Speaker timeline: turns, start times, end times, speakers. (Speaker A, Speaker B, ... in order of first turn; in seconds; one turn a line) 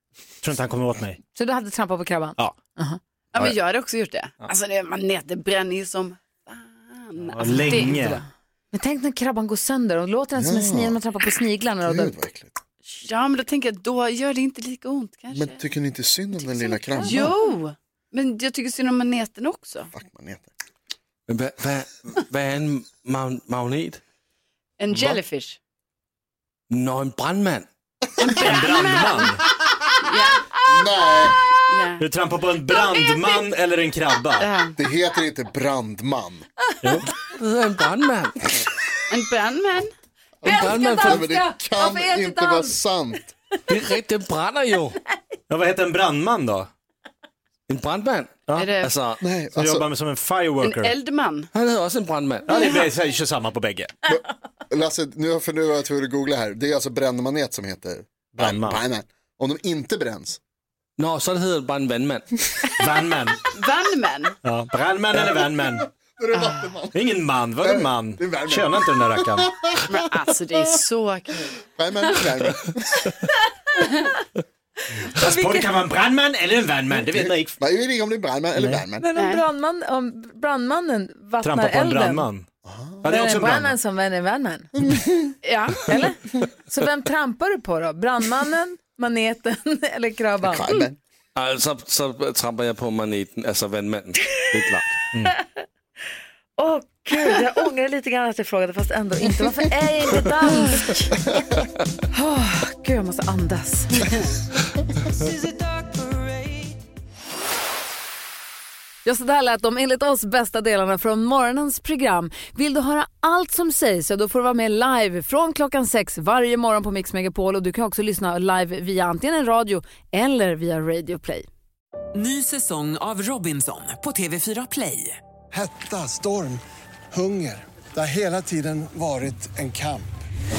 Speaker A: 0.4-1.2
Speaker B: 1.4-3.0
Speaker C: 3.3-8.2
Speaker A: 7.3-8.2
Speaker B: 8.7-12.2
Speaker D: 10.4-11.0
Speaker D: 11.8-12.6
Speaker C: 13.0-15.6
Speaker D: 15.3-17.4
Speaker C: 16.7-19.9
Speaker D: 19.9-20.5
Speaker E: 21.3-24.0
Speaker C: 24.8-25.6
Speaker E: 26.7-27.7
Speaker C: 28.2-29.4
Speaker A: 28.3-29.4
Speaker C: 30.0-30.4
Speaker D: 30.7-31.4
Speaker C: 31.7-32.0
Speaker A: 32.0-34.5
Speaker C: 32.8-33.4
Speaker C: 34.4-34.8
Speaker D: 34.8-36.5
Speaker E: 37.3-38.4
Speaker C: 39.1-39.9
Speaker B: 40.4-42.8
Speaker D: 40.4-43.3
Speaker E: 40.5-41.2
Speaker E: 43.7-45.0
Speaker A: 45.5-46.7
Speaker E: 47.7-49.2
Speaker A: 48.5-48.8
Speaker C: 48.6-48.9
Speaker D: 49.2-49.9
Speaker A: 49.5-51.0
Speaker C: 50.6-51.5
Speaker E: 51.5-52.7
Speaker A: 52.5-53.9
Speaker D: 54.1-60.4
Speaker A: 58.4-58.8
Speaker E: 61.0-62.3
Speaker A: 62.8-63.4
Speaker C: 63.5-64.4
Speaker A: 64.4-65.9
Speaker D: 66.2-67.0
Speaker C: 66.3-66.7
Speaker A: 66.9-69.5
Speaker D: 67.6-69.8
Speaker C: 69.9-71.5
Speaker D: 71.8-73.1
Speaker A: 75.1-77.6
Speaker B: 75.1-75.7
Speaker D: 77.1-79.1
Speaker A: 78.6-78.8
Speaker B: 79.0-82.3
Speaker C: 79.2-79.4
Speaker A: 81.4-82.5
Speaker D: 82.6-83.0
Speaker A: 83.0-83.7
Speaker B: 83.1-84.7
Speaker C: 85.4-86.0
Speaker B: 85.8-90.6
Speaker D: 90.4-91.0
Speaker E: 91.4-94.9
Speaker B: 96.6-101.3
Speaker B: 102.1-104.1
Speaker B: 109.0-121.5
Speaker F: 122.2-125.2
Speaker G: 125.5-126.6
Speaker G: 127.1-130.1